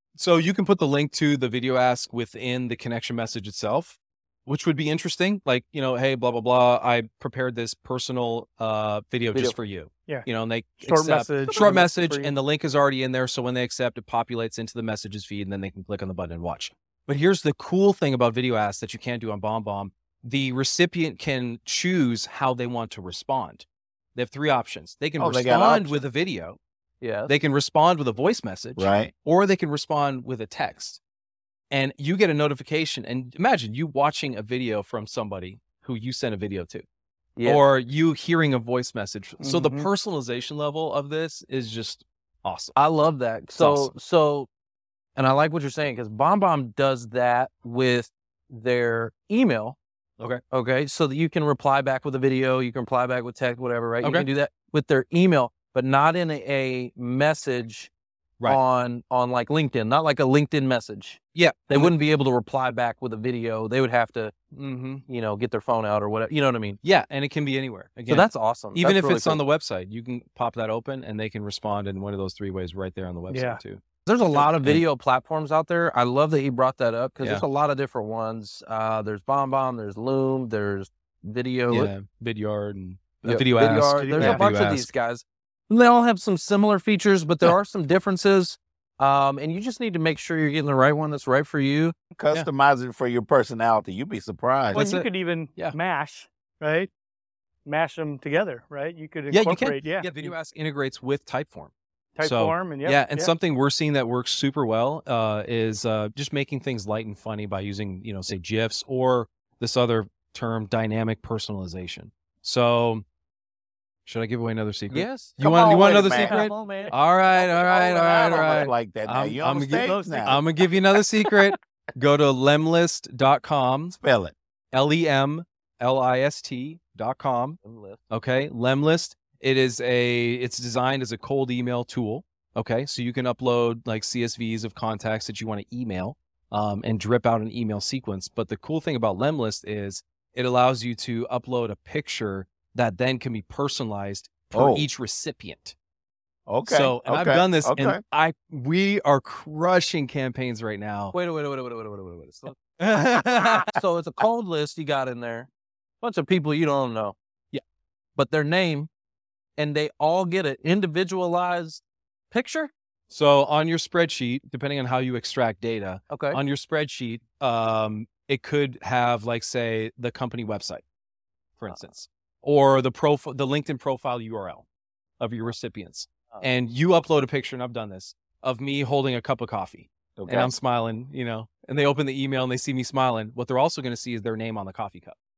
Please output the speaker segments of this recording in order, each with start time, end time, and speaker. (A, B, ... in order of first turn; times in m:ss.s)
0:00.2-0:26.6 A
0:09.3-0:09.6 B
0:10.8-0:12.4 C
0:25.2-0:26.0 D
0:27.0-0:27.3 B
0:27.3-0:31.0 A
0:28.8-0:29.1 D
0:31.7-0:36.8 A
0:37.4-0:37.6 B
0:37.4-0:42.8 A
0:39.4-0:39.9 C
0:42.8-0:44.5 B
0:43.5-0:43.9 A
0:45.2-0:49.8 B
0:50.5-0:57.9 B
0:54.0-0:54.3 A
0:58.4-1:04.3 B
1:01.4-1:02.0 A
1:04.5-1:05.0 A
1:05.1-1:06.8 B
1:06.8-1:14.8 A
1:08.1-1:09.4 B
1:13.3-1:13.6 C
1:14.1-1:21.9 B
1:17.2-1:17.4 A
1:21.7-1:24.9 A
1:23.2-1:31.9 B
1:23.9-1:24.5 D
1:32.2-1:34.8 D
1:34.7-1:36.9 C
1:34.7-1:35.8 A
1:37.6-1:40.1 C
1:39.3-1:53.0 A
1:42.2-1:43.3 C
1:54.1-2:04.0 A
1:54.9-1:56.9 B
1:55.4-1:56.5 D
1:56.1-1:56.9 C
1:57.5-2:00.4 D
1:58.1-1:58.7 B
1:59.9-2:00.4 C
1:59.9-2:00.3 B
2:03.9-2:04.4 D
2:04.7-2:07.6 A
2:07.6-2:08.0 B
2:08.1-2:25.8 A
2:24.5-2:24.9 D
2:26.5-2:28.0 D
2:26.6-2:31.1 A
2:31.1-2:35.5 B
2:32.8-2:33.7 A
2:36.0-2:37.2 B
2:38.2-2:38.9 B
2:39.6-2:42.7 B
2:43.1-2:50.8 A
2:46.1-2:46.4 B
2:51.6-2:54.6 A
2:55.2-3:05.2 A
3:00.2-3:00.6 D